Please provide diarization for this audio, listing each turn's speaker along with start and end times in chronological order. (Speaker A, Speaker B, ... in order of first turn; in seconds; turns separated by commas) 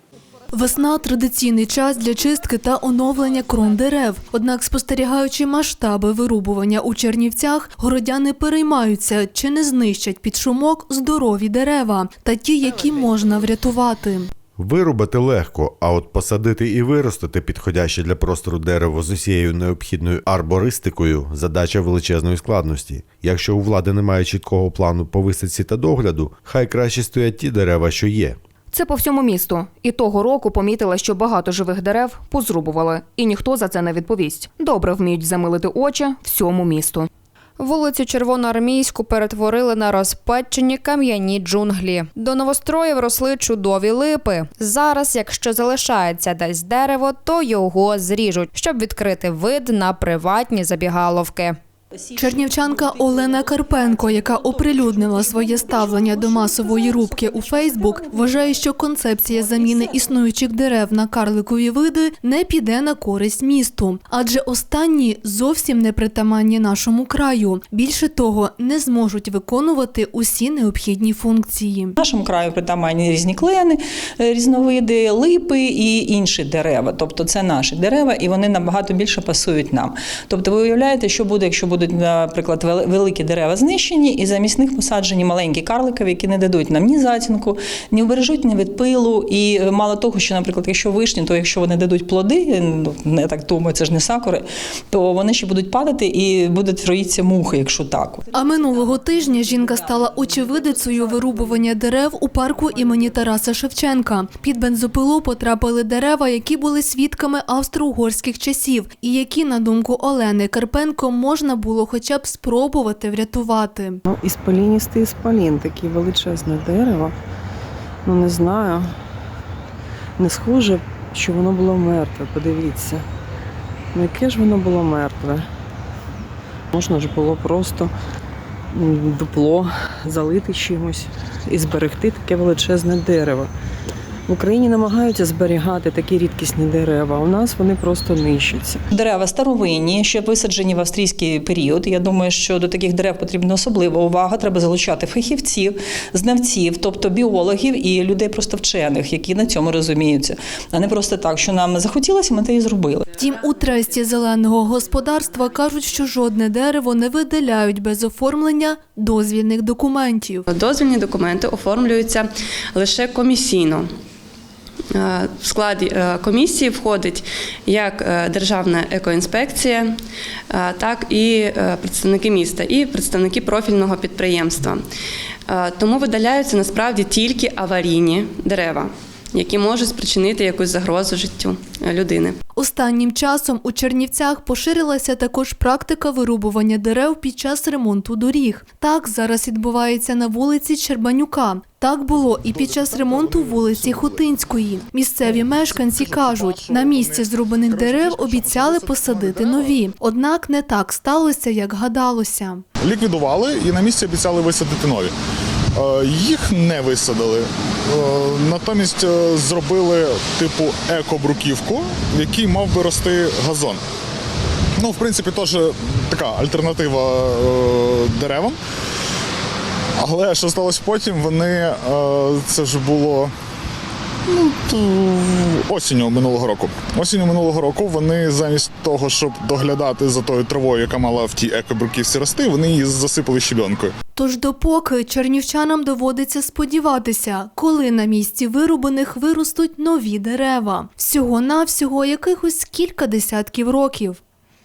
Speaker A: 0.5-14.3, Speaker B: 14.6-28.4, Speaker C: 28.7-37.1, Speaker D: 37.6-51.6, Speaker E: 52.1-58.4, Speaker A: 52.2-71.9, Speaker E: 59.5-59.9, Speaker E: 72.0-98.3, Speaker A: 98.3-114.0, Speaker F: 114.0-117.1, Speaker F: 118.0-118.9, Speaker F: 120.2-123.0, Speaker F: 123.9-125.5, Speaker F: 126.7-127.9, Speaker F: 128.7-133.5, Speaker F: 134.3-138.8, Speaker E: 138.9-153.1, Speaker A: 153.1-160.4, Speaker G: 160.5-163.9, Speaker G: 164.9-170.0, Speaker G: 170.5-174.8, Speaker G: 175.5-182.4, Speaker A: 182.6-202.6, Speaker H: 192.5-194.2, Speaker H: 195.2-199.8, Speaker H: 202.8-205.1, Speaker H: 205.8-213.8, Speaker H: 214.8-218.6, Speaker H: 220.0-223.3, Speaker H: 224.3-233.9, Speaker A: 234.1-244.2